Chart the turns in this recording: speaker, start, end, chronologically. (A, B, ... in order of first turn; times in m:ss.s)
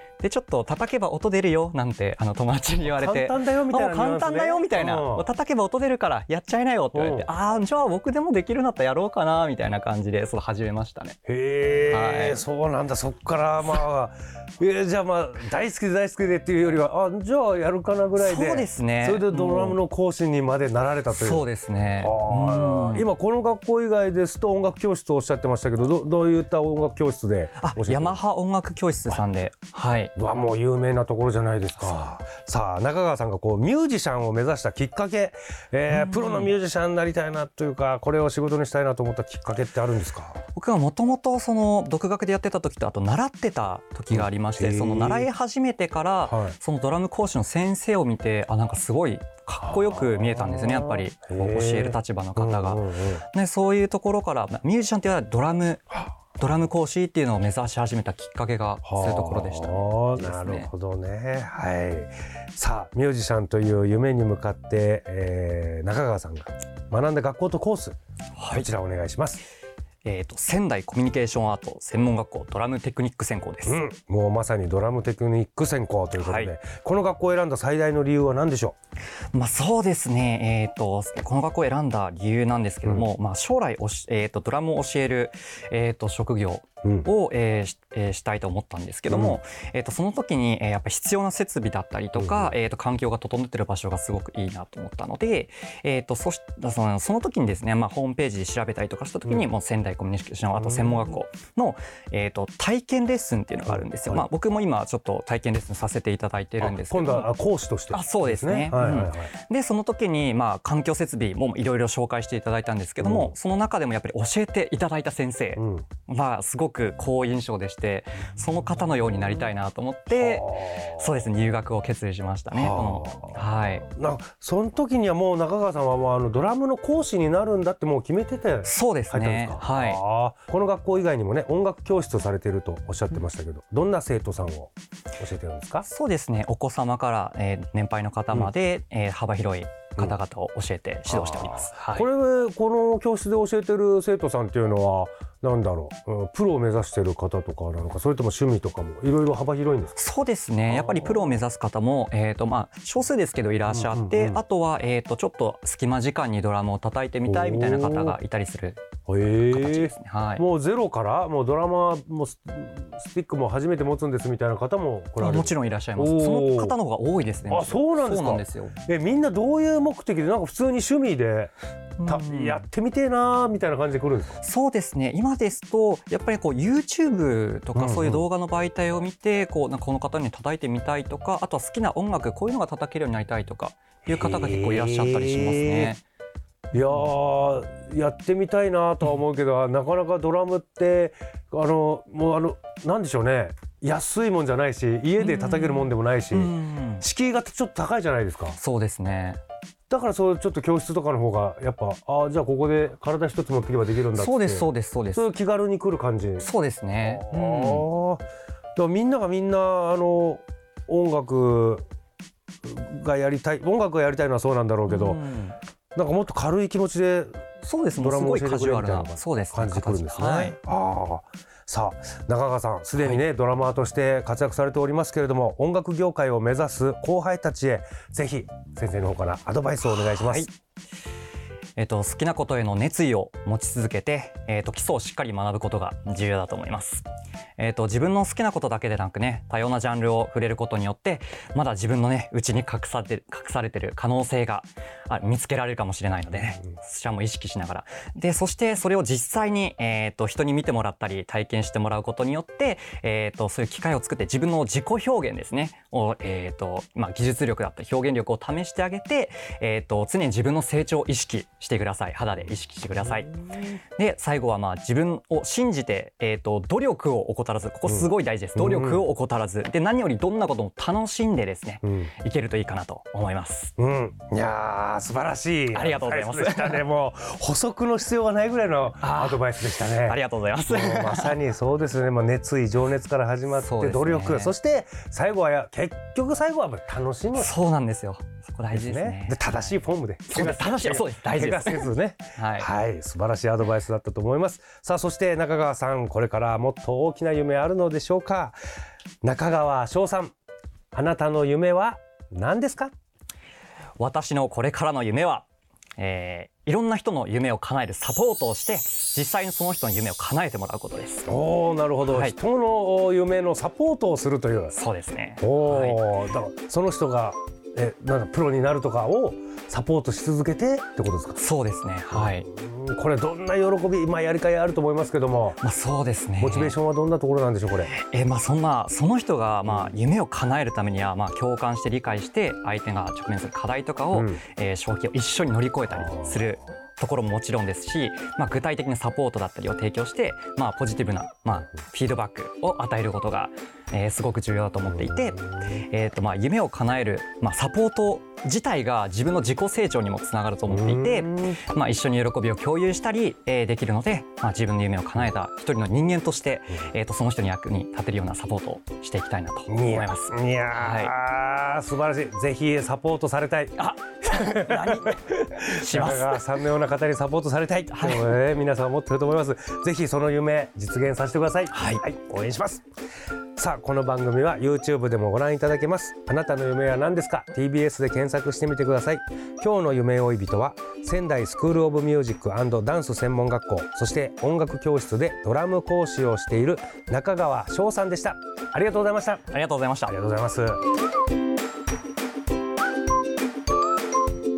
0:00.2-0:11.2 A
0:02.8-0:05.3 B
0:06.9-0:07.3 B
0:11.3-0:21.5 B
0:11.9-0:12.4 A
0:18.2-0:19.8 A
0:21.1-0:23.1 A
0:22.0-0:28.2 B
0:27.6-0:30.1 A
0:30.2-0:40.4 B
0:35.9-0:36.5 A
0:40.6-1:00.7 A
0:44.1-0:45.3 B
0:46.2-0:46.6 B
0:49.6-0:53.2 B
0:58.8-1:08.0 B
1:08.4-1:08.7 A
1:08.5-1:09.4 B
1:10.0-1:13.8 A
1:13.6-1:18.8 B
1:16.2-1:16.5 A
1:19.3-1:47.3 A
1:26.8-1:27.1 B
1:29.1-1:29.4 B
1:32.2-1:32.6 B
1:40.6-1:41.0 B
1:43.7-1:44.3 B
1:46.6-1:49.3 B
1:47.9-2:03.8 A
1:53.0-1:53.4 B
1:55.6-1:55.9 B
2:00.1-2:01.1 B
2:02.5-2:15.9 B
2:08.6-2:10.0 A
2:15.8-2:22.1 A
2:21.1-2:30.0 B
2:30.0-2:38.8 A
2:30.7-2:31.3 B
2:33.7-2:34.4 B
2:37.2-2:38.2 B
2:39.1-2:46.8 B
2:39.5-2:40.4 A
2:45.2-2:48.8 A
2:47.5-2:51.5 B
2:52.0-2:52.7 A
2:52.0-2:54.4 B
2:54.4-3:06.0 A
2:57.8-2:58.3 B
3:04.1-3:06.0 B
3:06.7-3:18.6 B
3:15.2-3:17.0 A
3:18.6-3:19.4 A
3:19.9-3:26.5 B
3:24.1-3:25.3 A
3:26.4-3:27.9 A
3:27.0-3:28.2 B
3:28.8-3:31.8 B
3:32.6-3:35.2 B
3:34.9-3:35.6 A
3:36.0-3:37.4 B
3:37.6-3:40.6 A
3:38.0-3:50.5 B
3:43.0-3:43.2 A
3:49.8-3:50.5 A
3:51.8-3:57.1 A
3:57.6-4:23.4 A
4:24.0-4:33.7 A
4:27.9-4:29.1 B
4:31.8-4:32.1 B
4:33.8-4:47.5 B
4:35.7-4:36.9 A
4:39.0-4:41.4 A
4:43.5-4:44.5 A
4:47.4-4:52.7 A
4:48.7-4:58.6 B
4:59.2-5:00.4 B
5:00.9-5:02.9 B
5:04.0-5:05.5 A
5:06.0-5:11.4 A
5:11.3-5:14.8 B
5:12.1-5:12.4 A
5:14.7-5:16.2 A
5:15.4-5:21.4 B
5:21.4-5:22.5 A
5:22.1-5:25.6 B
5:25.6-5:26.8 A
5:26.4-5:27.9 B
5:27.8-6:01.2 A
5:29.6-5:30.0 B
5:34.1-5:34.4 B
5:35.9-5:36.5 B
5:44.8-5:45.5 B
5:50.7-5:51.6 B
5:59.7-6:05.2 B
6:03.8-6:06.4 A
6:05.8-6:12.8 B
6:07.9-6:08.4 A
6:11.7-6:12.0 A
6:13.6-6:29.5 B
6:29.5-6:30.2 A
6:30.1-6:30.8 B